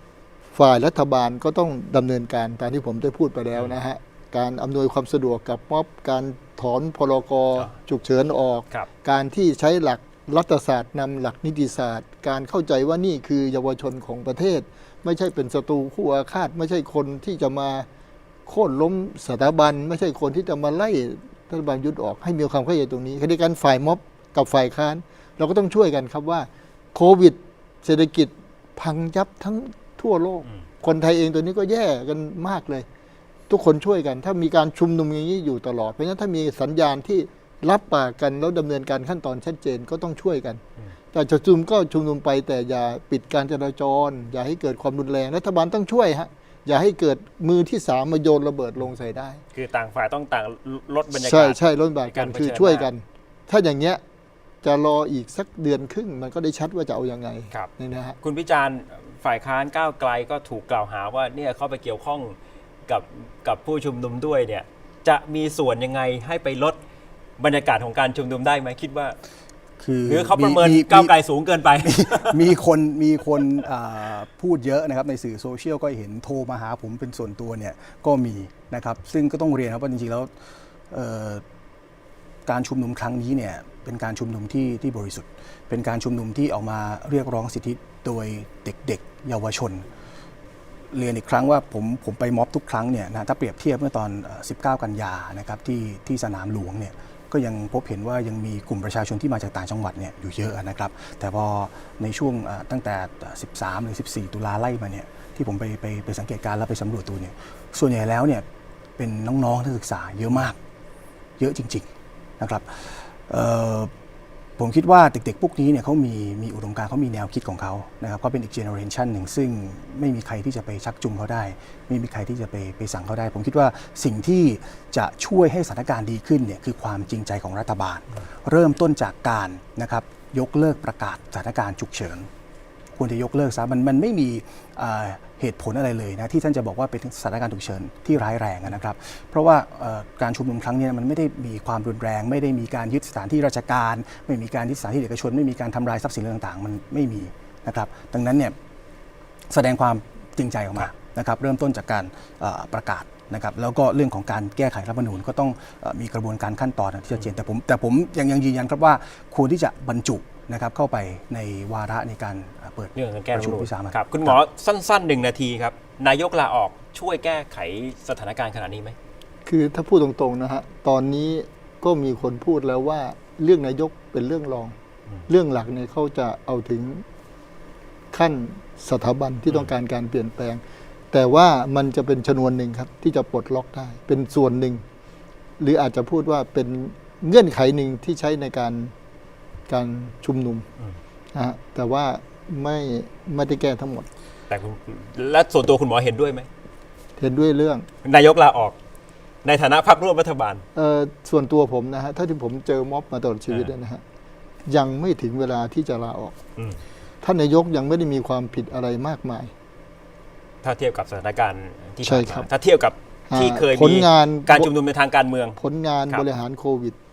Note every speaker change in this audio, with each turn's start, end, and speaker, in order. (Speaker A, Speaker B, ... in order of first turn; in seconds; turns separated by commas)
Speaker A: 0.5-17.9, Speaker A: 18.5-32.9, Speaker A: 33.5-40.6, Speaker A: 41.1-49.4, Speaker B: 49.5-52.9, Speaker A: 51.1-54.0, Speaker A: 54.6-58.2, Speaker B: 58.2-62.4, Speaker B: 62.9-66.8, Speaker B: 67.4-69.2, Speaker C: 69.8-71.1, Speaker B: 70.1-72.6, Speaker C: 71.8-80.3, Speaker C: 80.9-81.4, Speaker C: 82.5-89.9, Speaker C: 90.9-108.4, Speaker C: 109.0-110.6, Speaker C: 111.4-111.9, Speaker C: 112.4-113.9, Speaker C: 114.6-132.3, Speaker C: 133.0-148.6, Speaker C: 149.5-164.4, Speaker B: 162.9-169.0, Speaker A: 169.5-174.8, Speaker A: 175.3-177.1, Speaker A: 178.1-184.8, Speaker A: 185.6-188.9, Speaker A: 189.7-190.7, Speaker A: 191.3-194.1, Speaker B: 194.5-196.5, Speaker A: 197.2-197.9, Speaker B: 198.0-198.8, Speaker B: 199.4-200.6, Speaker A: 200.8-204.0, Speaker A: 204.7-206.4, Speaker A: 207.2-209.5, Speaker B: 210.6-215.6, Speaker A: 212.0-212.5, Speaker A: 213.3-214.7, Speaker A: 215.6-217.0